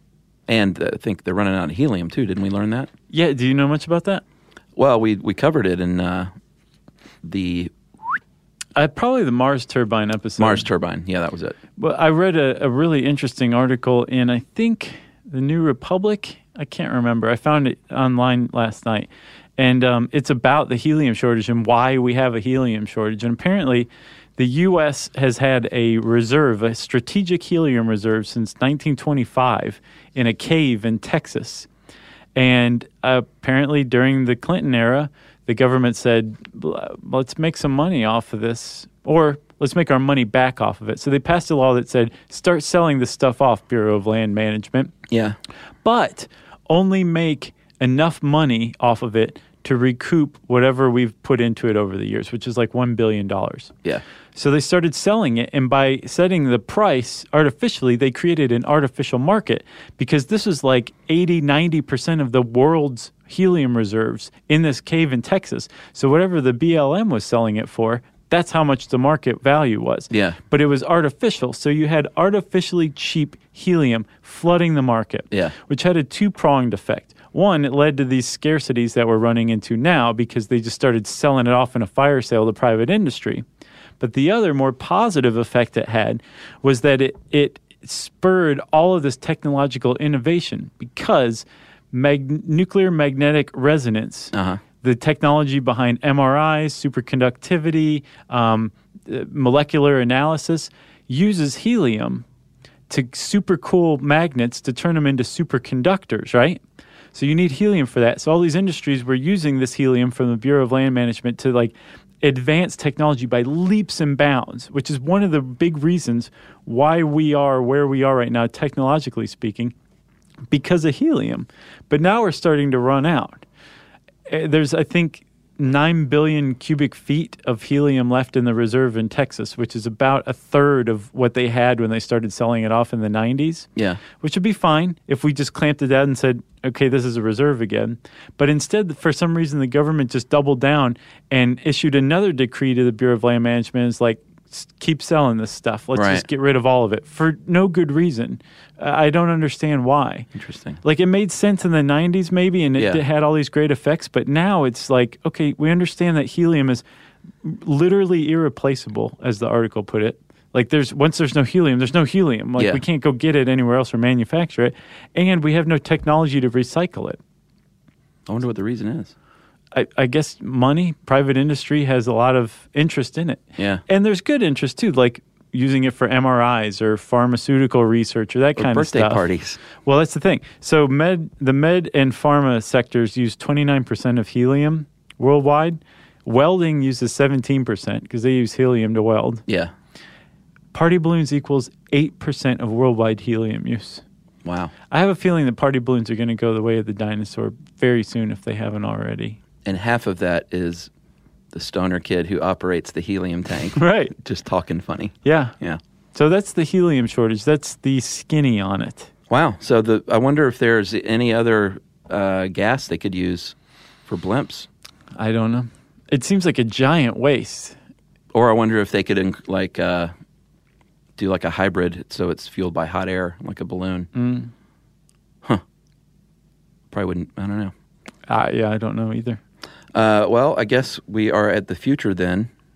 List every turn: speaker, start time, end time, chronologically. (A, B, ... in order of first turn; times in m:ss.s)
0:00.5-0:02.9 A
0:03.1-0:04.2 B
0:04.8-0:06.3 A
0:07.2-0:08.2 A
0:08.8-0:10.7 B
0:10.4-0:11.6 A
0:11.8-0:31.7 B
0:32.4-0:45.0 B
0:45.1-0:45.4 A
0:45.8-0:53.7 B
0:54.4-1:23.4 B
1:10.1-1:10.4 A
1:24.0-1:42.2 B
1:34.3-1:34.6 A
1:42.9-1:46.6 B
1:47.1-1:59.7 B
2:00.5-2:03.5 B
2:04.3-2:30.3 B
2:13.8-2:14.0 A
2:25.9-2:26.3 A
2:30.3-2:30.8 A
2:30.8-2:36.8 B
2:32.8-2:33.0 A
2:37.4-2:47.2 B
2:42.6-2:42.8 A
2:48.3-2:49.1 A
2:49.7-2:59.3 B
2:53.6-2:53.8 A
2:58.6-2:59.6 A
2:59.8-3:09.4 B
3:09.5-3:09.7 A
3:10.7-3:14.0 B
3:14.4-3:14.7 A
3:14.9-3:19.4 B
3:19.6-3:20.9 A
3:21.5-3:25.8 A
3:23.8-3:24.1 B
3:25.2-3:25.6 B
3:26.1-3:29.1 B
3:29.3-3:33.6 A
3:34.1-3:34.7 A
3:35.2-3:37.8 B
3:38.3-3:40.1 A
3:41.2-3:44.1 A
3:44.1-3:44.5 B
3:46.9-3:47.7 A
3:48.3-3:49.4 B
3:49.9-3:52.5 A